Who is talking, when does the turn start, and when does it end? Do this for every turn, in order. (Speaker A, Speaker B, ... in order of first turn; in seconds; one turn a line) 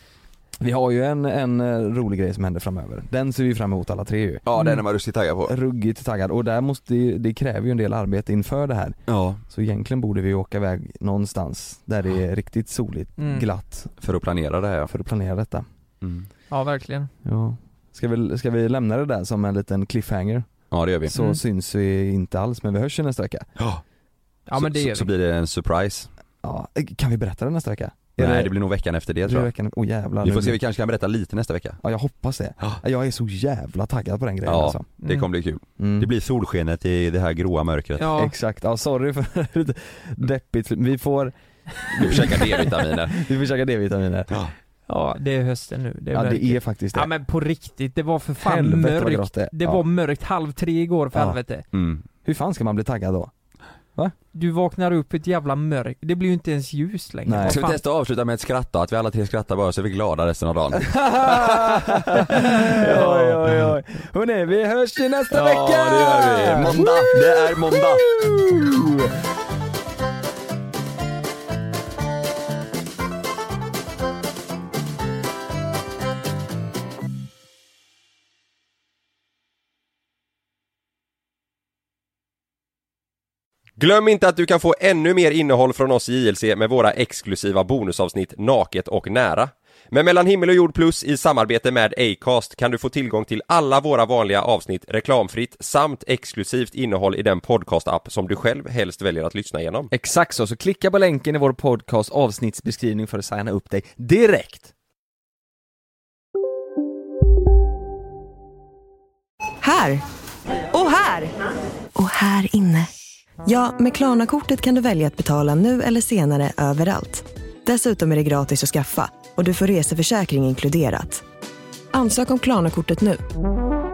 Speaker A: 0.6-4.4
Speaker B: 4.4-5.5
Speaker A: 5.5-14.0
Speaker B: 9.1-9.4
Speaker C: 13.2-13.4
Speaker B: 14.0-14.9
Speaker A: 14.9-15.6
Speaker B: 16.0-16.3
Speaker C: 16.5-17.1
Speaker A: 17.2-20.5
Speaker B: 20.7-21.1
Speaker A: 21.1-23.5
Speaker C: 21.1-21.4
Speaker C: 24.5-25.1
Speaker B: 24.6-26.1
Speaker A: 26.4-28.5
Speaker B: 28.2-29.5
Speaker A: 29.2-30.6
Speaker B: 30.2-31.8
Speaker A: 31.8-34.9
Speaker B: 34.5-38.0
Speaker C: 35.0-35.3
Speaker A: 35.8-36.1
Speaker C: 38.0-38.3
Speaker A: 38.0-41.3
Speaker A: 41.8-44.4
Speaker B: 42.0-43.2
Speaker C: 44.9-51.6
Speaker A: 46.1-47.1
Speaker A: 48.4-49.8
Speaker A: 51.1-51.4
Speaker B: 51.7-52.0
Speaker A: 52.2-53.3
Speaker C: 54.3-57.8
Speaker A: 57.2-57.6
Speaker B: 57.5-61.7
Speaker A: 60.9-69.1
Speaker C: 62.3-63.4
Speaker B: 62.7-63.3
Speaker B: 65.3-68.1
Speaker D: 83.8-99.9
Speaker A: 99.9-104.7
Speaker E: 109.6-110.0
Speaker E: 110.7-111.3
Speaker E: 111.9-112.9
Speaker E: 113.4-121.2
Speaker E: 121.9-123.2